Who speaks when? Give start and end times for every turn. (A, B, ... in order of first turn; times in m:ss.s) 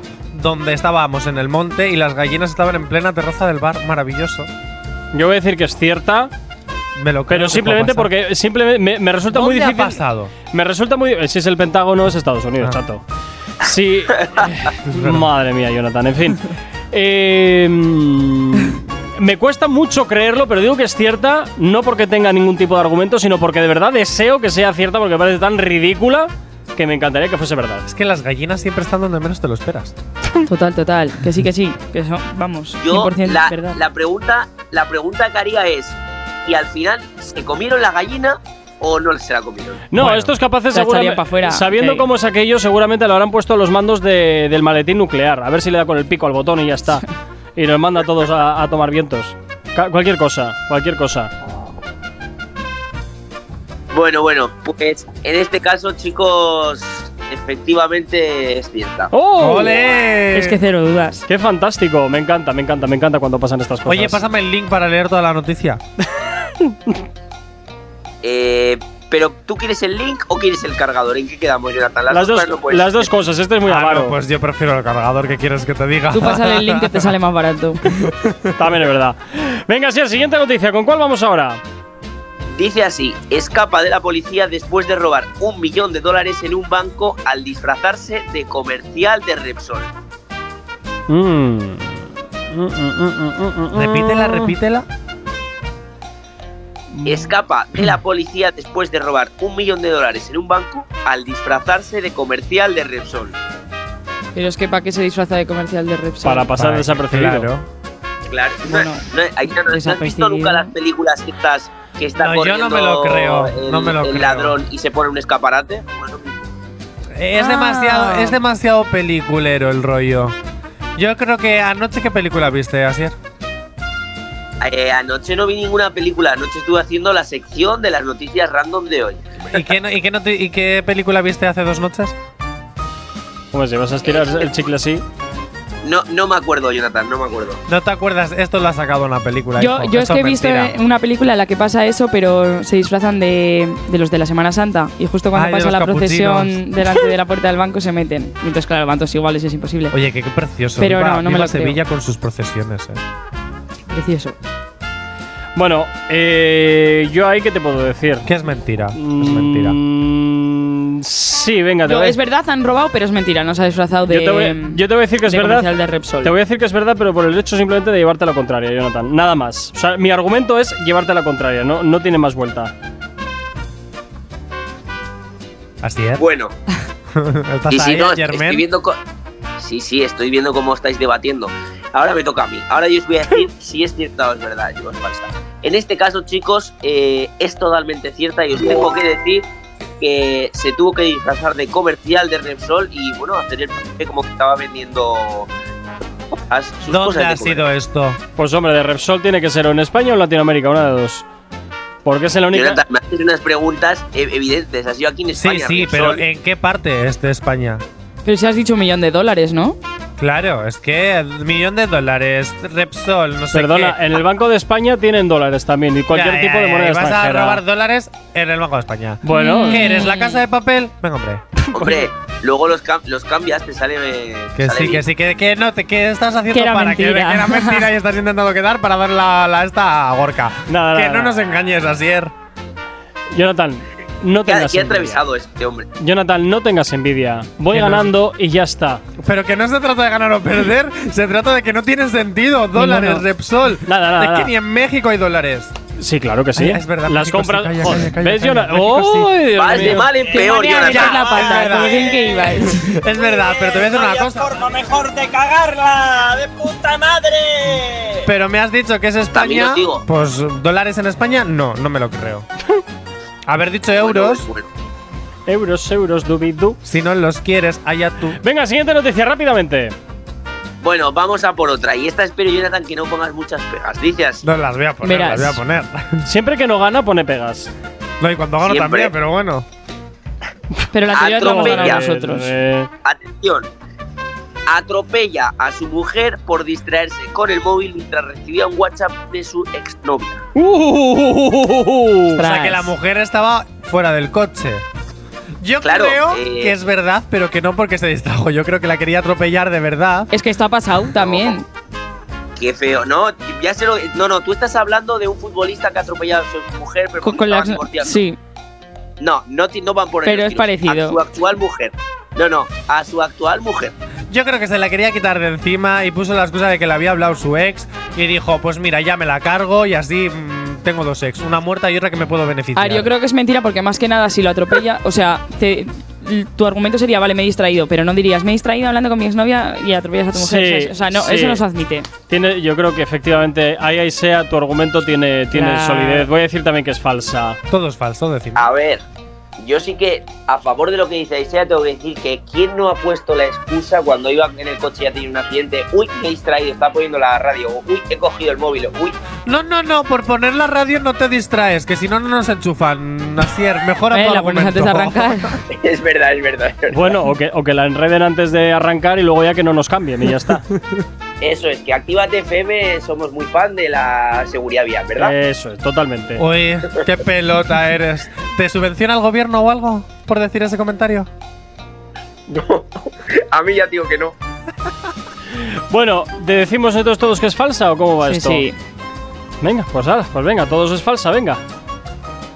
0:00.3-0:04.5 A
0:05.1-0:06.3 B
0:07.0-0:08.1 A
0:07.3-0:13.0 B
0:09.3-0:10.3 A
0:13.6-0:27.8 B
0:14.9-0:15.3 A
0:27.9-0:30.0 A
0:30.4-0:33.8 C
0:32.8-0:39.8 D
0:39.9-0:47.0 B
0:40.0-0:40.3 A
0:40.7-0:42.0 C
0:47.6-0:51.3 B
0:53.9-0:59.1 D
0:59.1-0:59.9 B
0:59.4-1:00.6 A
1:00.3-1:01.2 C
1:01.3-1:04.2 B
1:03.8-1:05.8 A
1:06.6-1:07.0 B
1:08.2-1:13.1 D
1:12.1-1:14.2 B
1:13.6-1:17.1 A
1:16.1-1:17.8 C
1:18.0-1:18.5 A
1:18.6-1:21.6 B
1:22.5-1:29.9 D
1:31.1-1:34.5 B
1:33.7-1:34.9 A
1:36.9-1:37.3 B
1:37.0-1:43.4 D
1:44.3-1:46.5 C
1:46.2-1:47.5 B
1:46.6-1:47.6 A
1:48.3-1:56.5 D
1:48.6-1:50.7 C
1:52.2-1:54.6 A
1:57.2-2:00.4 A
1:57.3-1:58.4 C
2:01.0-2:03.2 A
2:04.6-2:09.6 D
2:09.5-2:12.2 A
2:13.5-2:15.0 B
2:14.0-2:14.5 D
2:15.8-2:17.6 D
2:17.7-2:20.7 A
2:19.6-2:30.0 C
2:25.3-2:26.6 A
2:29.9-2:33.0 A
2:30.8-2:31.8 C
2:33.9-2:34.4 C
2:35.5-2:38.3 B
2:38.2-2:39.8 A
2:38.9-2:42.2 B
2:41.8-2:46.3 C
2:44.1-2:52.7 B
2:55.8-2:56.2 A
2:56.2-2:56.5 D
2:57.1-2:58.6 A
2:57.7-2:59.0 D
2:59.6-3:09.4 D
3:10.0-3:15.5 D
3:16.4-3:17.7 D
3:16.8-3:18.2 A
3:18.4-3:21.2 B
3:22.0-3:22.8 B
3:22.5-3:26.2 D
3:25.3-3:27.8 A
3:28.2-3:29.8 C
3:30.2-3:34.0 A
3:33.5-3:37.6 B
3:36.1-3:41.4 A
3:39.2-3:39.8 B
3:39.3-3:40.4 C
3:41.6-3:42.1 B
3:41.7-3:45.0 D
3:44.6-3:52.3 A
3:46.5-3:47.9 C
3:50.7-3:51.5 B
3:53.3-3:55.2 B
3:54.4-3:55.9 D
3:56.0-3:59.0 B
3:57.7-3:58.1 A
3:59.2-4:05.7 A
4:02.7-4:03.2 C
4:03.8-4:04.5 B
4:06.0-4:10.2 B
4:06.6-4:09.4 A
4:09.5-4:11.4 D
4:10.3-4:13.0 C
4:10.7-4:14.5 A
4:12.0-4:12.4 E
4:13.1-4:18.2 E
4:18.2-4:22.4 A
4:19.3-4:20.0 D
4:23.4-4:24.5 A
4:23.9-4:24.7 D
4:25.5-4:26.8 B
4:26.8-4:28.4 A
4:28.4-4:29.9 B
4:30.8-4:34.4 D
4:34.4-4:36.2 A
4:35.0-4:35.6 C
4:36.2-4:37.7 B
4:38.2-4:39.6 A
4:38.6-4:39.1 D
4:40.9-4:42.5 C
4:41.1-4:42.0 D
4:41.4-4:42.9 B
4:43.0-4:43.7 D
4:44.7-4:50.4 D
4:50.5-4:52.4 B
4:52.3-4:52.9 C
4:52.4-4:54.8 A
4:55.6-5:00.3 A
4:55.8-4:56.7 D
5:00.3-5:01.6 C
5:01.2-5:01.6 D
5:02.6-5:08.2 D
5:07.2-5:08.4 C
5:09.2-5:13.9 D
5:10.2-5:11.2 C
5:14.3-5:23.1 A
5:22.7-5:32.1 C
5:30.3-5:31.6 B
5:32.3-5:37.6 B
5:35.5-5:36.3 C
5:37.7-5:38.7 A
5:38.6-5:39.0 D
5:39.6-5:49.2 D
5:49.4-5:55.6 A
5:54.1-5:55.6 C
5:55.7-5:57.1 D
5:56.9-6:00.6 B
6:01.4-6:05.3 D
6:05.2-6:06.4 B
6:06.4-6:11.3 A
6:12.5-6:14.4 D
6:15.6-6:18.6 B
6:18.2-6:18.8 C
6:19.6-6:21.6 B